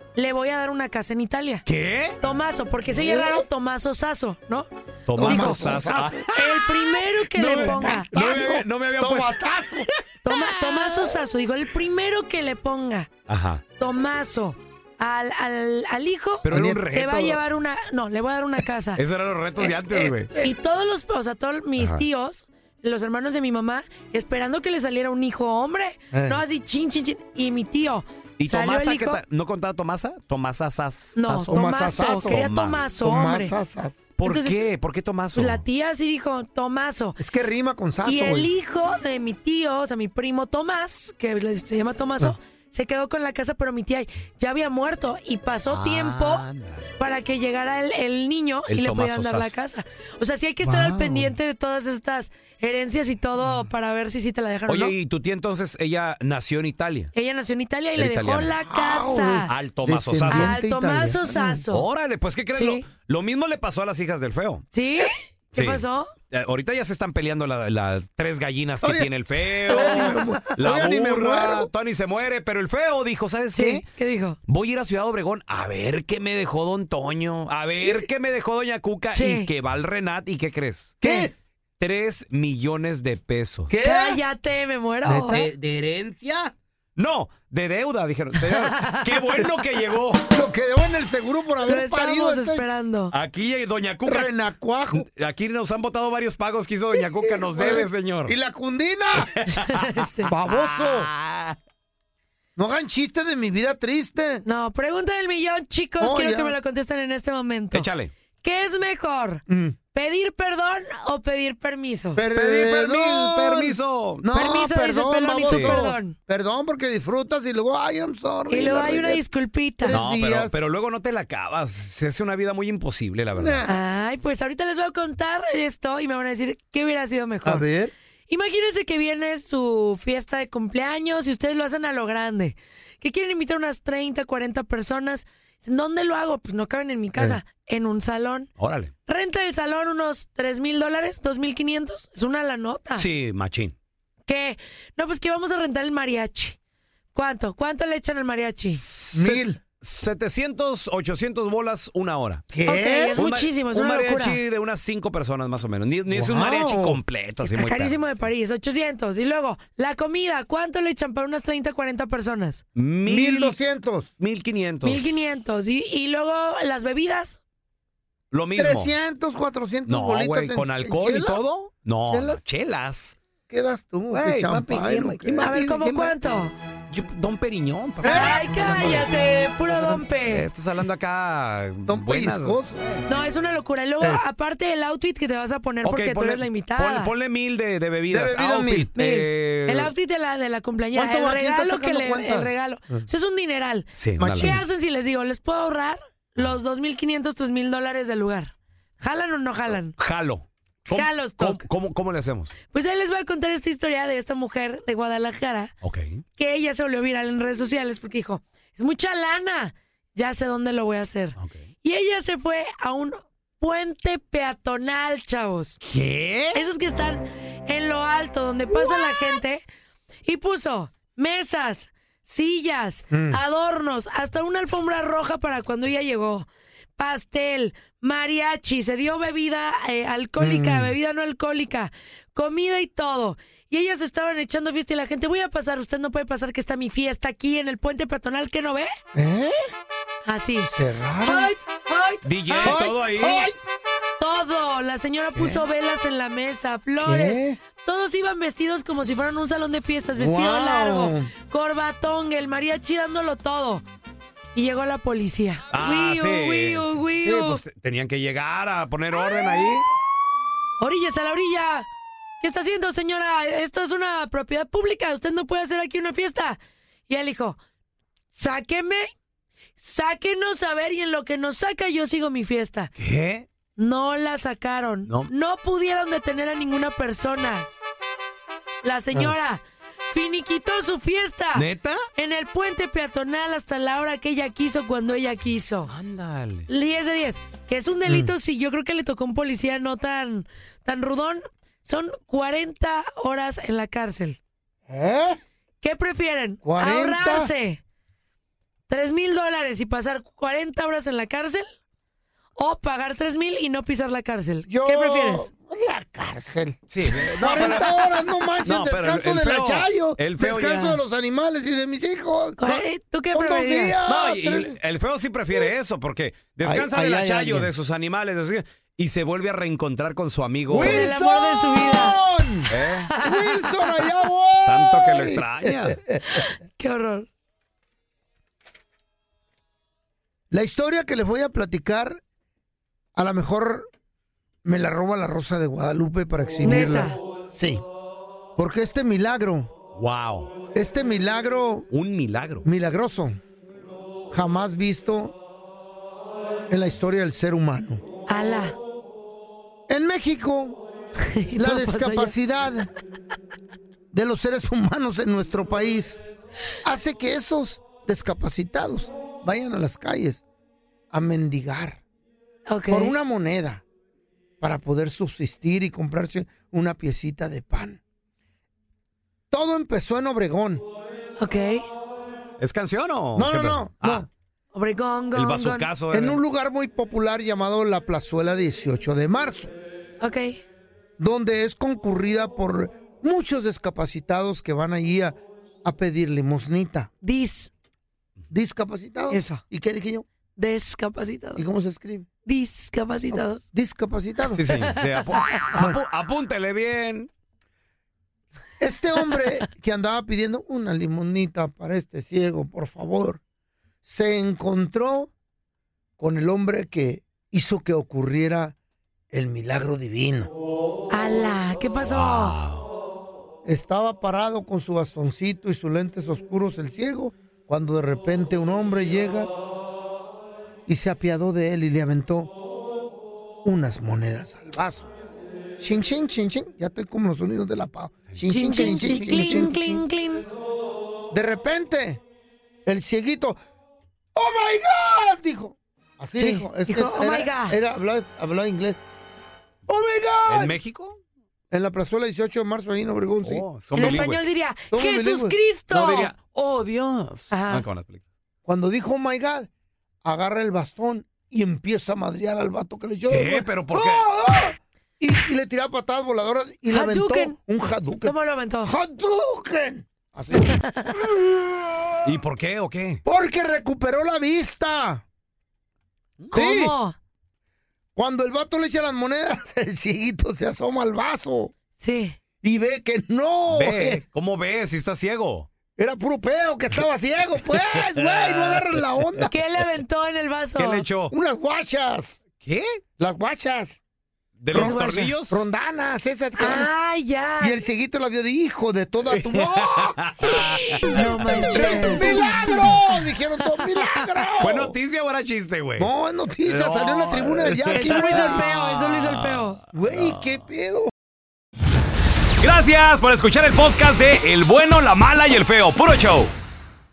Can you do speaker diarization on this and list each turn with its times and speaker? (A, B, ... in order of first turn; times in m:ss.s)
0:00.2-0:01.6 A
0:01.6-0:02.2 B
0:02.2-0:04.7 A
0:02.9-0:03.4 C
0:05.1-0:06.3 B
0:05.2-0:06.3 C
0:05.2-0:05.8 A
0:06.3-0:08.4 A
0:07.3-0:11.1 C
0:07.4-0:09.4 B
0:10.2-0:13.1 A
0:13.3-0:13.6 B
0:13.8-0:19.0 A
0:16.4-0:17.4 B
0:16.5-0:16.9 C
0:19.0-0:20.3 B
0:19.7-0:20.5 C
0:20.4-0:29.2 A
0:21.8-0:22.0 B
0:26.1-0:26.4 C
0:28.4-0:32.8 B
0:31.2-0:33.5 A
0:31.4-0:32.4 C
0:33.0-0:34.0 C
0:34.2-0:35.6 B
0:34.2-0:34.6 A
0:35.3-0:37.2 A
0:37.2-0:38.5 C
0:38.0-0:46.4 A
0:45.7-0:46.9 B
0:47.0-0:54.9 A
0:48.7-0:49.5 B
0:50.6-0:51.3 C
0:54.7-0:57.1 B
0:57.1-0:59.5 A
0:58.0-0:58.6 B
0:58.7-1:01.6 C
0:59.5-1:00.5 B
1:00.3-1:01.8 A
1:01.7-1:04.6 B
1:02.5-1:02.8 A
1:04.7-1:06.1 A
1:05.5-1:13.8 B
1:08.8-1:09.1 C
1:09.6-1:11.7 C
1:09.7-1:10.2 A
1:13.5-1:14.4 A
1:14.5-1:21.3 B
1:17.8-1:18.1 C
1:19.1-1:19.5 A
1:21.0-1:21.3 C
1:21.8-1:23.7 B
1:23.7-1:24.2 C
1:23.8-1:25.4 A
1:25.0-1:25.5 C
1:25.3-1:30.2 B
1:28.6-1:29.0 A
1:30.3-1:32.7 C
1:31.6-1:33.1 A
1:33.1-1:34.3 B
1:34.0-1:35.0 C
1:34.9-1:38.3 B
1:37.0-1:39.4 C
1:39.2-1:41.6 B
1:39.5-1:40.3 A
1:40.2-1:41.1 C
1:42.6-1:44.4 C
1:44.4-1:47.8 A
1:46.0-1:46.6 C
1:47.7-1:48.1 B
1:48.4-1:52.2 A
1:49.5-1:49.7 C
1:52.1-1:59.2 C
1:52.3-1:54.2 B
1:54.3-1:56.2 A
1:55.4-1:55.8 B
1:58.5-2:00.0 A
1:59.8-2:00.5 C
1:59.9-2:03.6 B
2:03.4-2:03.8 C
2:03.7-2:07.6 A
2:07.4-2:07.9 C
2:08.3-2:18.5 A
2:18.6-2:18.9 B
2:19.1-2:23.0 A
2:22.9-2:23.7 B
2:24.3-2:26.6 A
2:27.1-2:28.8 A
2:28.8-2:32.5 B
2:29.1-2:29.6 C
2:32.5-2:33.2 C
2:32.6-2:34.4 A
2:33.1-2:38.2 B
2:36.1-2:37.0 C
2:37.4-2:42.6 A
2:42.8-2:43.6 B
2:43.0-2:44.1 C
2:44.2-2:45.1 B
2:44.8-2:47.4 A
2:48.3-2:48.9 B
2:48.6-2:51.4 C
2:49.8-2:53.2 B
2:52.1-2:52.4 C
2:53.5-2:56.0 C
2:54.1-2:56.1 B
2:55.4-2:56.5 A
2:56.9-2:59.1 B
2:58.0-2:58.9 C
2:58.0-3:00.4 A
2:59.7-3:02.7 B
3:01.9-3:02.8 C
3:03.1-3:07.1 A
3:05.8-3:09.9 B
3:08.1-3:08.9 C
3:09.0-3:19.9 A
3:10.9-3:13.0 C
3:14.0-3:14.6 B
3:14.2-3:14.6 C
3:20.0-3:22.5 B
3:20.9-3:21.6 A
3:22.7-3:25.7 A
3:25.8-3:26.2 B
3:26.4-3:35.8 A
3:31.4-3:31.6 B
3:35.8-3:36.6 B
3:36.5-3:39.6 A
3:40.2-3:58.9 A
3:43.1-3:43.4 C
3:50.4-3:50.9 C
3:59.1-3:59.6 C
4:00.2-4:00.7 A
4:00.7-4:01.5 C
4:01.2-4:02.8 A
4:02.2-4:03.4 B
4:02.6-4:03.6 C
4:04.2-4:13.8 A
4:07.0-4:07.6 C
4:10.2-4:11.3 C
4:14.5-4:17.6 A
4:15.7-4:19.8 B
4:20.8-4:21.9 A
4:22.4-4:27.6 A
4:28.3-4:29.1 A
4:29.8-4:32.9 A
4:33.0-4:33.4 B
4:33.8-4:37.7 A
4:38.8-4:45.9 A
4:41.5-4:42.0 B
4:45.9-4:46.7 B
4:46.7-4:54.4 A
4:48.0-4:48.3 C
4:54.9-4:55.4 C
4:55.8-4:57.8 A
4:56.6-4:57.5 C
4:58.9-5:01.7 A
5:02.6-5:05.5 A
5:04.7-5:14.8 C
5:06.9-5:11.0 B
5:12.6-5:14.0 A
5:14.0-5:21.1 B
5:16.6-5:17.7 C
5:20.7-5:26.4 C
5:20.8-5:22.2 A
5:22.7-5:23.1 B
5:23.1-5:23.5 A
5:24.6-5:26.0 B
5:26.3-5:27.3 A
5:30.5-5:32.2 C
5:33.1-5:33.9 C
5:34.6-5:37.8 C
5:36.6-5:37.2 A
5:38.6-5:39.7 C
5:40.0-5:40.5 B
5:40.7-5:41.9 C
5:41.9-5:42.6 B
5:42.6-5:43.4 C
5:44.3-5:45.4 C
5:46.7-5:48.0 C
5:48.3-5:48.8 A
5:49.9-5:50.8 C
5:51.2-5:52.4 A
5:51.6-5:52.9 C
5:54.1-5:56.2 C
5:56.8-6:00.4 C
6:01.1-6:02.0 C
6:02.7-6:03.2 A
6:02.9-6:03.8 C
6:04.6-6:08.0 C
6:09.5-6:10.8 C
6:11.4-6:11.8 A
6:12.6-6:14.2 B
6:13.3-6:14.3 C
6:14.7-6:15.9 A
6:15.3-6:16.4 B
6:16.1-6:19.7 C
6:20.2-6:20.6 A
6:21.2-6:27.1 C
6:27.2-6:27.7 A
6:28.5-6:30.2 C
6:29.3-6:29.6 A
6:30.6-6:31.6 A
6:31.6-6:32.3 C
6:32.4-6:33.6 A
6:33.3-6:34.6 C
6:34.5-6:37.3 B
6:35.0-6:35.7 A
6:38.8-6:43.4 C
6:44.0-6:45.3 C
6:46.2-6:48.7 C
6:49.3-6:50.5 C
6:51.1-6:52.6 A
6:52.1-6:52.9 B
6:53.6-6:59.5 C
7:00.9-7:02.5 C
7:03.6-7:05.1 C
7:05.8-7:10.0 C
7:08.5-7:10.4 A
7:08.7-7:09.6 B
7:11.3-7:12.2 C
7:12.8-7:13.6 C
7:14.3-7:19.0 C
7:16.3-7:17.8 A
7:19.9-7:20.8 C
7:20.4-7:21.2 B
7:21.7-7:24.3 C
7:23.4-7:24.5 B
7:23.9-7:26.3 A
7:24.9-7:25.6 C
7:25.9-7:28.2 B
7:27.5-7:27.8 A
7:28.6-7:29.7 C
7:30.2-7:41.4 C
7:33.3-7:34.2 B
7:36.9-7:37.6 A
7:38.2-7:38.9 A
7:40.6-7:41.2 A
7:42.2-7:43.2 B
7:43.2-7:45.2 C
7:46.5-7:46.9 C
7:46.5-7:47.2 A
7:48.2-7:51.7 C
7:52.0-7:52.4 A
7:52.6-7:54.2 C
7:53.7-7:55.7 B
7:56.0-7:59.5 C
7:57.7-7:59.4 B
7:59.4-8:01.0 A
8:00.8-8:01.3 B
8:01.3-8:02.4 C
8:02.6-8:03.0 B
8:03.2-8:04.0 C
8:04.6-8:05.7 B
8:04.7-8:05.3 A
8:04.7-8:06.9 C
8:06.6-8:07.8 A
8:07.6-8:10.2 C
8:09.2-8:11.3 B
8:10.6-8:12.6 A
8:11.7-8:14.9 C
8:14.6-8:16.1 B
8:16.0-8:18.7 C
8:16.6-8:20.4 B
8:17.9-8:19.8 A
8:19.9-8:21.1 C
8:22.6-8:26.5 B